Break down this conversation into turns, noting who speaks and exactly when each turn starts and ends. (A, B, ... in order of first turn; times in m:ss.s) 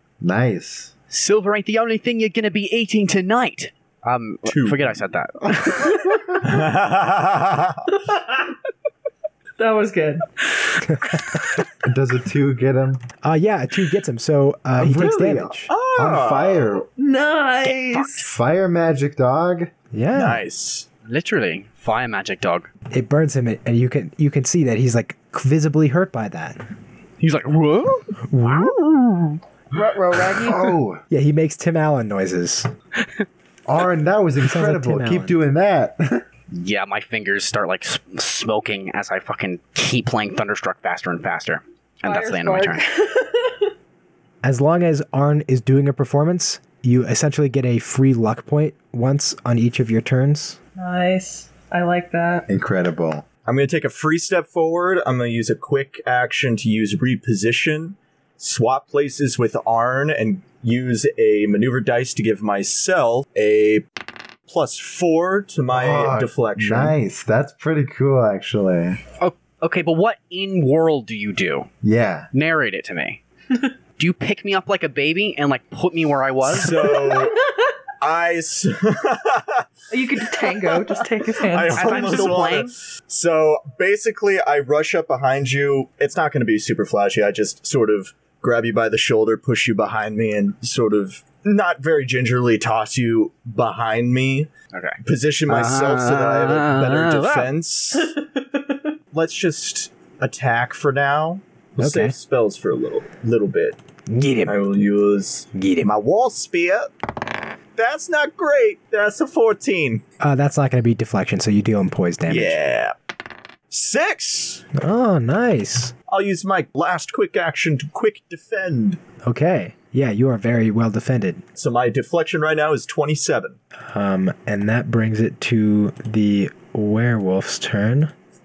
0:00.2-0:00.9 A
0:01.1-0:05.9 B
0:04.5-0:05.0 C
0:06.4-0:07.9 C
0:08.0-0:08.5 D
0:09.6-0:10.2 D
0:10.9-0:11.2 E
0:11.8-0:13.0 A
0:13.2-0:15.7 E
0:14.8-0:16.8 A
0:15.7-0:16.8 C
0:17.0-0:18.2 D
0:17.6-0:18.2 B
0:18.2-0:19.7 A
0:19.9-0:20.4 E
0:20.1-0:20.9 C
0:21.0-0:22.7 B
0:22.9-0:26.6 E
0:27.2-0:29.4 B
0:28.3-0:28.8 E
0:29.7-0:30.8 D
0:30.4-0:31.0 A
0:31.1-0:32.7 E
0:33.7-0:36.2 A
0:34.4-0:35.4 E
0:36.5-0:42.8 B
0:42.0-0:43.7 D
0:44.4-0:50.6 E
0:50.8-0:52.4 D
0:52.5-0:53.2 A
0:53.4-1:03.8 C
1:04.5-1:07.0 C
1:05.7-1:09.0 A
1:09.2-1:11.7 B
1:11.8-1:12.3 A
1:12.3-1:13.2 B
1:14.0-1:17.1 B
1:16.4-1:17.4 C
1:16.8-1:17.7 D
1:18.0-1:34.5 C
1:19.9-1:22.6 D
1:21.7-1:22.7 B
1:34.7-1:37.5 B
1:35.0-1:38.2 C
1:38.0-1:38.9 D
1:39.1-1:43.8 C
1:41.8-1:42.1 E
1:44.1-1:44.8 E
1:44.4-1:46.9 C
1:45.5-1:45.9 E
1:47.8-1:50.0 C
1:50.2-1:52.6 E
1:52.3-1:52.9 C
1:53.7-1:54.6 C
1:54.7-1:55.9 E
1:56.1-1:59.0 C
1:59.2-2:01.4 E
2:01.6-2:03.6 C
2:03.9-2:08.1 E